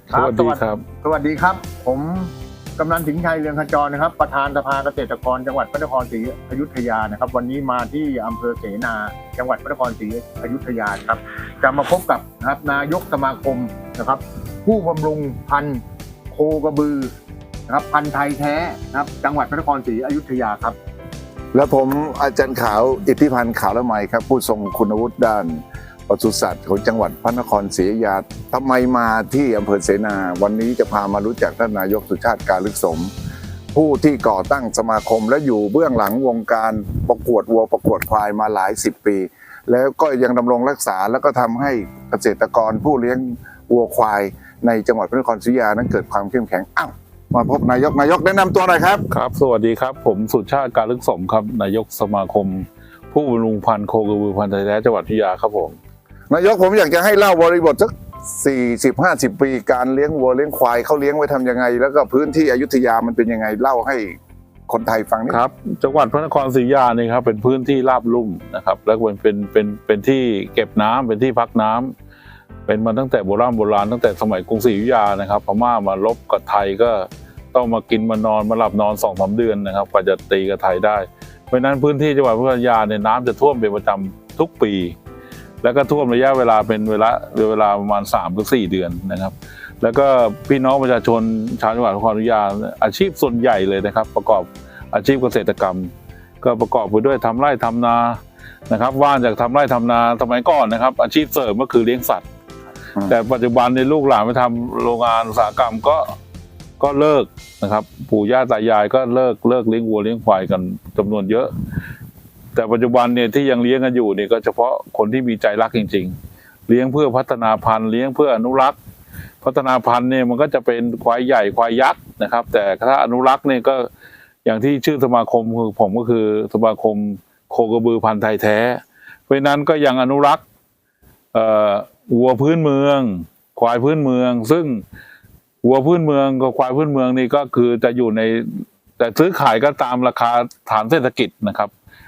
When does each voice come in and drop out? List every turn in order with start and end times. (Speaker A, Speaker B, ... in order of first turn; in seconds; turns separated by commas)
Speaker A: 0.1-17.1, Speaker B: 0.1-0.8, Speaker A: 17.7-20.7, Speaker C: 21.5-33.1, Speaker C: 33.7-49.0, Speaker B: 49.1-55.8, Speaker C: 56.3-65.4, Speaker B: 65.3-71.9, Speaker B: 72.7-85.0, Speaker B: 85.6-102.2, Speaker B: 103.1-106.2, Speaker B: 106.8-111.5, Speaker B: 112.5-116.2, Speaker B: 116.7-118.8, Speaker B: 119.4-123.9, Speaker B: 124.4-130.4, Speaker B: 131.3-134.8, Speaker B: 135.6-141.7